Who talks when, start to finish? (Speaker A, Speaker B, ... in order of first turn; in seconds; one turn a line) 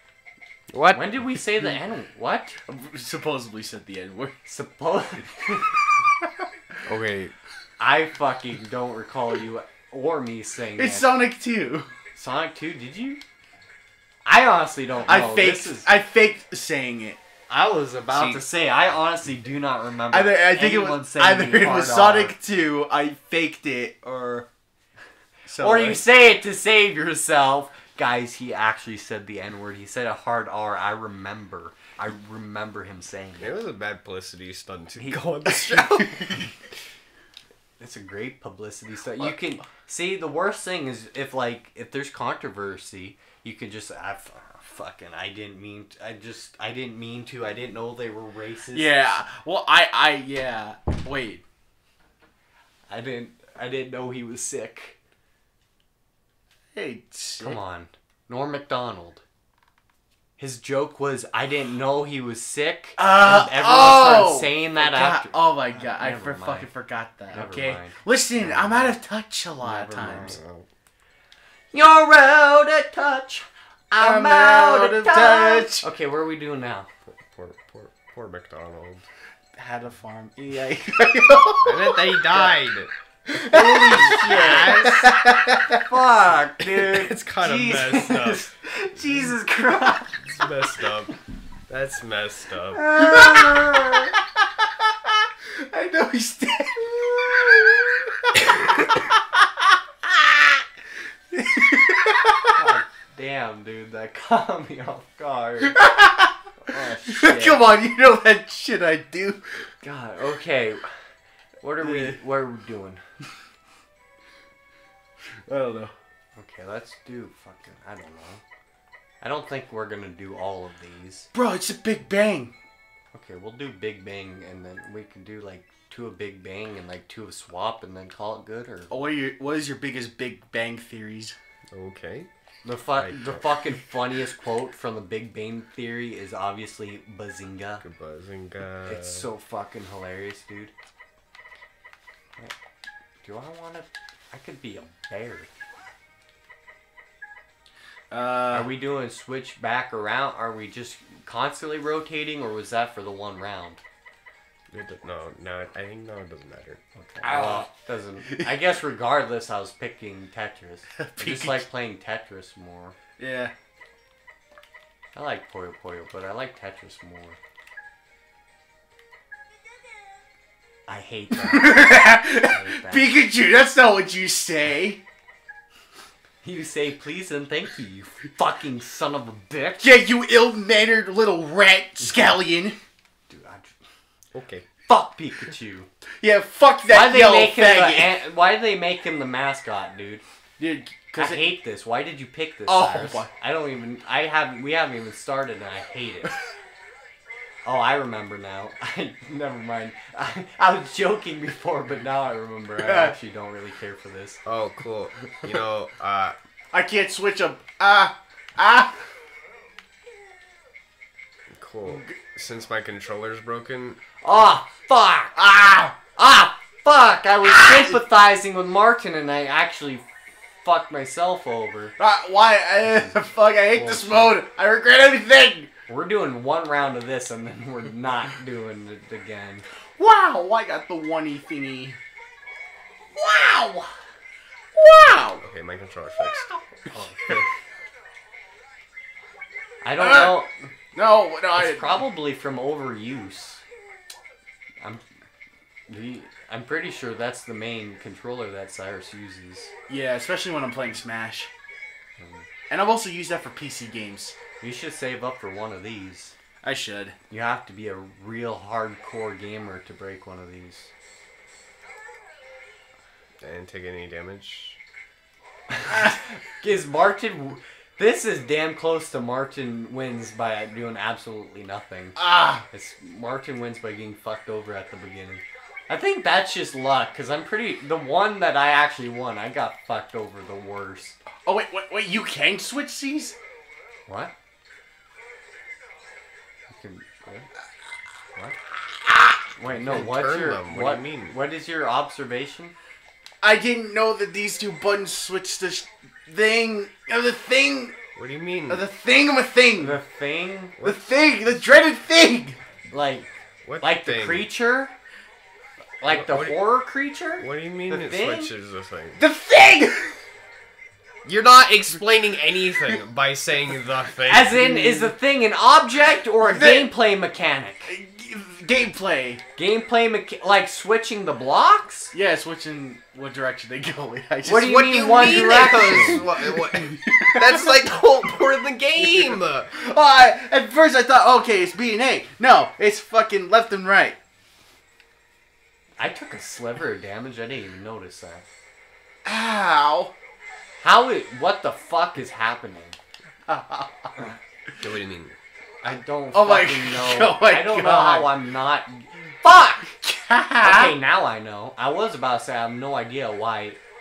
Speaker A: 0.7-1.1
Speaker B: 0.9-2.6
Speaker C: 2.7-4.4
Speaker B: 4.5-5.8
Speaker A: 6.9-7.3
Speaker B: 7.8-11.1
Speaker C: 10.8-11.9
Speaker B: 12.2-13.2
Speaker B: 14.3-15.9
Speaker C: 15.1-17.2
Speaker B: 17.5-22.3
Speaker A: 18.1-18.4
Speaker C: 20.1-24.5
Speaker C: 25.5-26.0
Speaker B: 25.6-33.5
Speaker A: 33.4-36.2
Speaker B: 35.0-35.9
Speaker B: 37.8-49.2
Speaker C: 48.7-51.4
Speaker B: 52.9-55.0
Speaker C: 56.8-57.6
Speaker B: 57.4-59.2
Speaker B: 60.4-66.7
Speaker C: 63.0-70.4
Speaker B: 67.3-69.0
Speaker A: 69.6-70.7
Speaker B: 71.7-76.9
Speaker C: 74.0-75.8
Speaker A: 77.1-79.1
Speaker C: 79.6-82.5
Speaker A: 81.6-82.9
Speaker C: 83.3-85.8
Speaker B: 83.4-85.0
Speaker A: 83.9-85.0
Speaker B: 85.7-90.3
Speaker A: 86.9-88.5
Speaker C: 88.8-90.1
Speaker A: 90.3-91.1
Speaker A: 91.7-92.9
Speaker C: 92.8-94.2
Speaker B: 93.4-94.1
Speaker C: 95.5-99.0
Speaker C: 100.1-100.4
Speaker C: 101.3-102.5
Speaker B: 102.5-105.8
Speaker C: 105.6-106.4
Speaker B: 106.6-107.7
Speaker C: 107.0-109.4
Speaker B: 109.8-110.9
Speaker B: 111.6-113.0
Speaker C: 111.8-112.2
Speaker C: 115.5-115.9
Speaker B: 116.4-118.4
Speaker B: 119.2-121.3
Speaker C: 121.3-122.5
Speaker B: 123.1-128.9
Speaker C: 128.9-131.4
Speaker A: 131.7-132.3
Speaker B: 132.6-137.8
Speaker A: 132.9-133.4
Speaker A: 137.8-139.3
Speaker B: 138.9-140.7
Speaker B: 143.2-145.5
Speaker C: 148.1-148.7
Speaker B: 148.5-153.8
Speaker A: 154.7-156.8
Speaker B: 157.0-163.0
Speaker C: 157.2-157.7
Speaker C: 158.3-158.6
Speaker C: 161.0-161.7
Speaker C: 163.2-163.5
Speaker B: 165.2-167.4
Speaker B: 170.9-173.1
Speaker C: 171.4-175.0
Speaker B: 176.4-179.9
Speaker C: 179.8-182.8
Speaker B: 183.3-183.8
Speaker A: 184.3-184.7
Speaker B: 184.9-185.9
Speaker C: 186.2-188.2
Speaker B: 186.9-190.2
Speaker C: 190.6-191.5
Speaker B: 191.2-196.4
Speaker C: 192.7-193.3
Speaker B: 197.7-204.4
Speaker C: 202.8-203.2
Speaker A: 204.4-206.4
Speaker C: 206.7-209.0
Speaker A: 211.5-214.0
Speaker C: 211.9-212.1
Speaker B: 214.2-215.4
Speaker C: 215.4-215.9
Speaker B: 216.0-221.9
Speaker C: 217.7-217.9
Speaker C: 222.0-225.7
Speaker B: 222.8-224.4
Speaker B: 225.9-229.7
Speaker C: 230.0-232.0
Speaker C: 233.2-233.9
Speaker C: 234.8-235.4
Speaker A: 235.4-236.5
Speaker B: 236.9-237.5
Speaker B: 239.8-240.5
Speaker C: 240.0-240.4
Speaker C: 240.9-241.9
Speaker B: 241.6-243.6
Speaker B: 245.9-249.7
Speaker C: 249.9-251.5
Speaker B: 252.2-252.5
Speaker C: 252.7-254.4
Speaker B: 254.6-256.4
Speaker C: 256.6-257.2
Speaker B: 257.3-260.9
Speaker A: 263.4-264.8
Speaker B: 265.8-281.2
Speaker C: 272.2-272.7
Speaker C: 281.5-283.4
Speaker B: 284.1-284.3
Speaker B: 286.7-287.5
Speaker B: 289.6-292.7
Speaker A: 289.7-291.4
Speaker C: 293.4-298.0
Speaker A: 298.2-298.9
Speaker C: 298.7-300.0
Speaker B: 299.8-300.8
Speaker C: 300.8-302.6
Speaker B: 302.9-304.9
Speaker A: 303.6-304.5
Speaker B: 306.0-308.5
Speaker A: 306.1-306.6
Speaker A: 307.4-309.2
Speaker C: 309.2-310.2
Speaker A: 311.2-314.6
Speaker B: 314.3-318.0
Speaker C: 314.5-315.1
Speaker A: 316.6-316.9
Speaker C: 317.9-319.4
Speaker B: 319.6-322.1
Speaker C: 322.1-327.8
Speaker B: 324.4-326.2
Speaker A: 324.6-329.7
Speaker C: 329.0-334.2
Speaker B: 336.0-338.4
Speaker C: 339.2-340.1
Speaker B: 340.8-343.0
Speaker C: 343.5-344.1
Speaker A: 344.8-345.4
Speaker B: 345.8-350.0
Speaker C: 346.3-348.3
Speaker C: 350.0-351.0
Speaker B: 350.6-353.8